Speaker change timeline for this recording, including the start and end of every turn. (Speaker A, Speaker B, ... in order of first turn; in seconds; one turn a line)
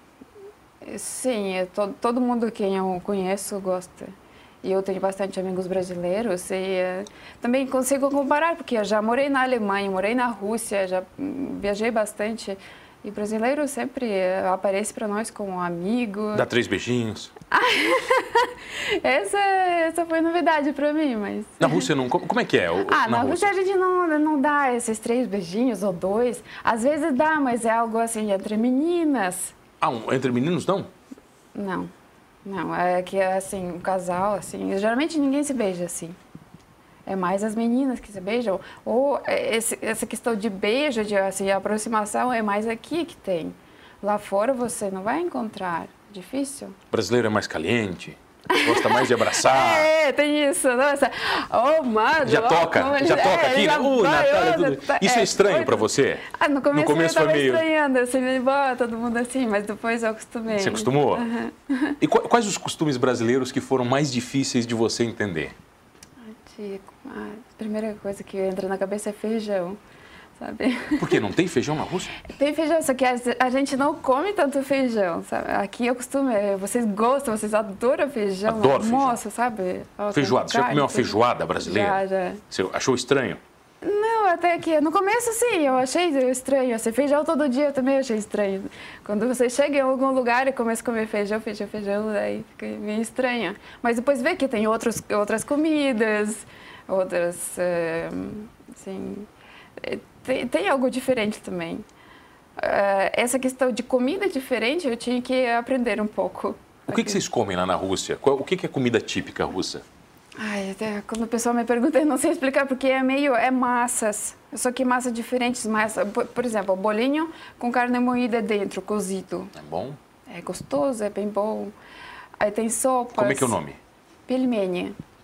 Speaker A: 0.8-16.4
Speaker B: 16.3-17.3
Speaker A: 17.5-21.9
Speaker B: 21.6-23.5
Speaker A: 22.8-29.5
Speaker B: 29.8-30.9
Speaker A: 31.5-31.9
Speaker A: 32.4-36.2
Speaker A: 37.0-46.8
Speaker B: 46.9-49.9
Speaker A: 48.5-62.0
Speaker B: 52.2-57.6
Speaker B: 60.5-61.3
Speaker B: 62.0-65.5
Speaker A: 66.3-69.8
Speaker A: 70.4-71.2
Speaker B: 71.0-72.2
Speaker A: 72.2-82.4
Speaker B: 78.5-79.2
Speaker B: 80.1-83.4
Speaker A: 83.8-101.8
Speaker A: 102.6-107.2
Speaker B: 106.9-109.8
Speaker A: 110.4-119.5
Speaker B: 119.5-120.0
Speaker A: 120.3-121.7
Speaker A: 122.4-123.5
Speaker B: 123.1-123.8
Speaker A: 124.3-125.0